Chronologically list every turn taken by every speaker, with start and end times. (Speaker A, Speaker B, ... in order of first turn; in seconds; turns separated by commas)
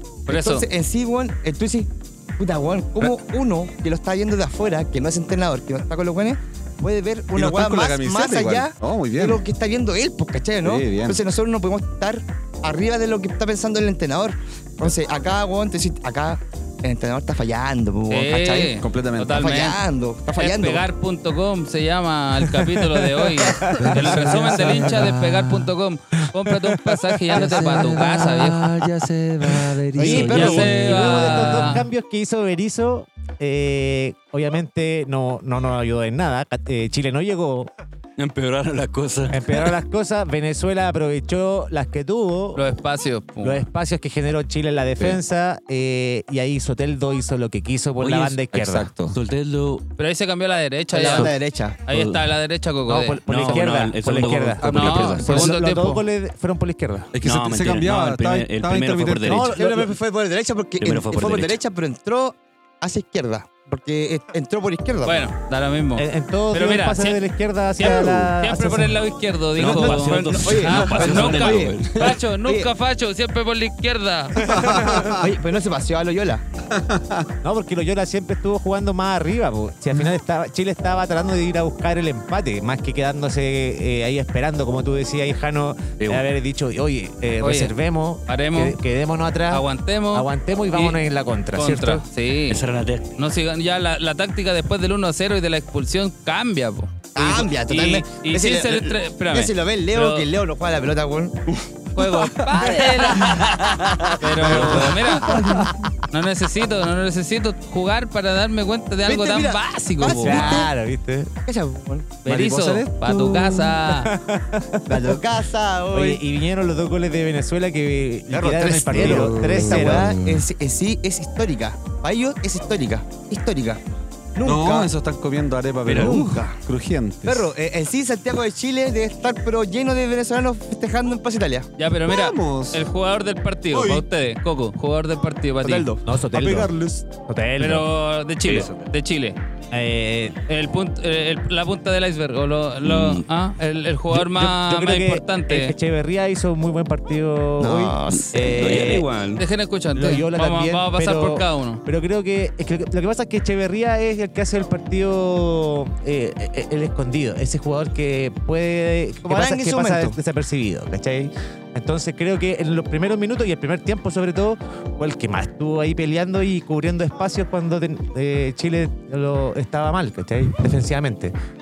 Speaker A: 0.3-0.7, Speaker B: 0.3-18.7, Speaker C: 7.3-9.4, Speaker C: 10.6-11.2, Speaker A: 18.1-19.8, Speaker C: 18.7-19.4, Speaker B: 19.4-20.8, Speaker A: 20.4-28.8, Speaker D: 23.4-25.6, Speaker D: 26.7-37.7, Speaker E: 27.4-31.8, Speaker A: 30.0-31.9, Speaker B: 30.0-30.7, Speaker E: 38.2-39.8, Speaker D: 39.3-42.6, Speaker A: 42.5-43.7, Speaker D: 43.4-48.9, Speaker E: 48.0-48.5, Speaker C: 48.5-49.1, Speaker E: 49.0-49.8, Speaker A: 50.0-51.3, Speaker B: 50.9-51.8, Speaker E: 51.0-51.3, Speaker A: 51.9-53.5, Speaker E: 51.9-52.3, Speaker D: 52.9-57.1, Speaker E: 53.2-55.5, Speaker A: 54.6-56.0, Speaker C: 54.6-55.1, Speaker C: 57.1-59.5, Speaker E: 57.2-59.6, Speaker D: 59.2-59.9, Speaker B: 59.5-65.3, Speaker E: 60.8-61.6, Speaker A: 65.0-67.2, Speaker D: 66.0-69.0, Speaker A: 67.8-74.6, Speaker C: 67.8-68.3, Speaker E: 69.5-72.1, Speaker B: 69.6-72.7, Speaker C: 74.4-75.3, Speaker D: 74.6-75.0, Speaker B: 75.0-76.4, Speaker C: 76.7-77.3, Speaker D: 77.4-92.0, Speaker E: 86.0-86.2, Speaker A: 87.4-87.7, Speaker A: 88.3-88.8, Speaker A: 89.5-91.0, Speaker A: 91.5-92.6, Speaker E: 92.5-93.1, Speaker A: 93.2-100.3, Speaker B: 97.1-101.4, Speaker A: 101.9-103.6, Speaker B: 102.6-103.1, Speaker B: 103.9-105.2, Speaker A: 104.2-110.6, Speaker C: 104.5-105.0, Speaker D: 105.3-105.9, Speaker B: 109.0-110.7, Speaker D: 110.1-111.3, Speaker B: 111.5-112.1, Speaker C: 112.2-113.8, Speaker A: 112.2-114.1, Speaker D: 113.9-115.2, Speaker B: 114.9-116.2, Speaker D: 115.9-120.2, Speaker B: 118.3-123.8, Speaker C: 118.9-120.4, Speaker B: 124.3-124.9, Speaker C: 124.4-127.5, Speaker E: 125.8-126.2, Speaker B: 125.9-126.6, Speaker B: 127.2-131.7, Speaker A: 131.8-135.9, Speaker C: 132.0-132.9, Speaker C: 133.7-134.0, Speaker B: 135.6-136.1, Speaker D: 136.1-137.9, Speaker C: 136.3-137.0, Speaker A: 137.6-139.4, Speaker D: 139.7-140.4, Speaker A: 140.5-145.7, Speaker E: 142.8-143.2, Speaker D: 144.1-149.1, Speaker B: 147.6-148.4, Speaker E: 148.1-149.4, Speaker A: 149.3-151.8, Speaker D: 149.9-171.3, Speaker B: 159.2-160.2